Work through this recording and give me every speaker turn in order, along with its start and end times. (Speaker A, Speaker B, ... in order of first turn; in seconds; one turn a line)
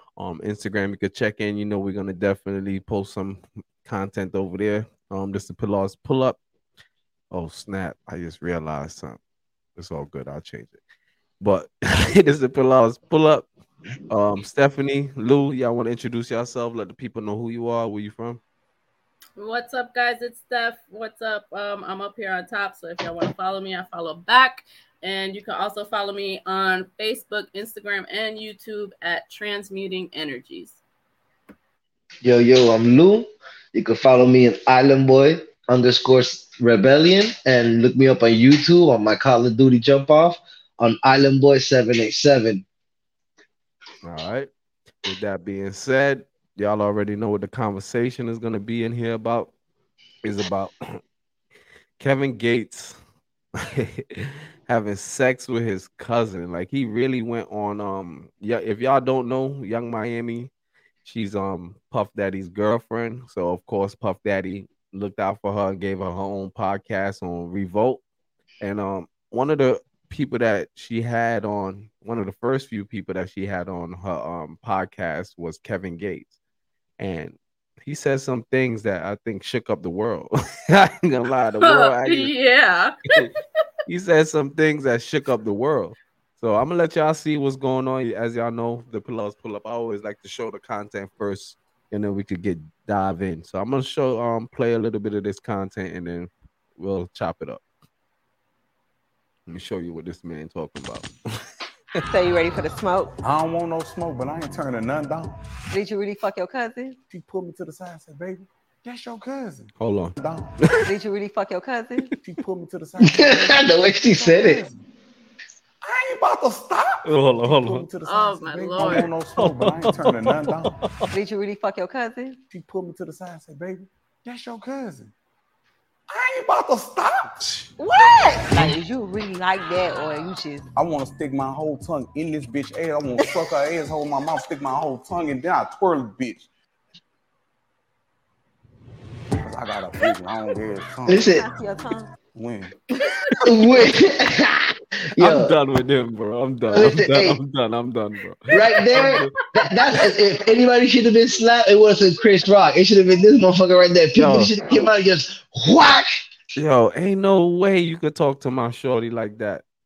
Speaker A: 0.2-6.4
Speaker A: 7.3-9.2
Speaker A: 9.8-10.8
Speaker A: 11.4-13.5
Speaker A: 14.1-18.4
Speaker B: 19.4-30.8
Speaker C: 32.2-42.6
Speaker A: 44.0-44.5
Speaker A: 45.0-49.5
Speaker A: 50.2-51.0
Speaker A: 52.0-53.0
Speaker A: 53.6-60.5
Speaker A: 61.0-68.0
Speaker A: 68.6-76.3
Speaker A: 77.0-82.3
Speaker B: 81.6-83.1
Speaker A: 83.9-97.6
Speaker A: 99.5-101.1
Speaker D: 102.1-103.1
Speaker E: 103.2-105.4
Speaker D: 105.7-107.0
Speaker E: 107.1-110.5
Speaker A: 109.8-110.2
Speaker D: 110.8-112.1
Speaker E: 112.2-114.8
Speaker C: 113.0-114.6
Speaker E: 115.8-120.7
Speaker A: 117.0-117.9
Speaker B: 118.0-119.1
Speaker A: 118.8-121.1
Speaker D: 121.1-122.4
Speaker E: 122.5-125.1
Speaker E: 126.1-127.4
Speaker D: 127.8-130.6
Speaker E: 130.8-136.5
Speaker E: 139.4-141.2
Speaker C: 141.1-141.4
Speaker D: 141.3-142.1
Speaker E: 142.3-142.7
Speaker C: 143.4-145.5
Speaker A: 145.2-149.3
Speaker C: 146.7-147.4
Speaker C: 148.5-156.1
Speaker A: 154.2-154.5
Speaker A: 156.6-159.6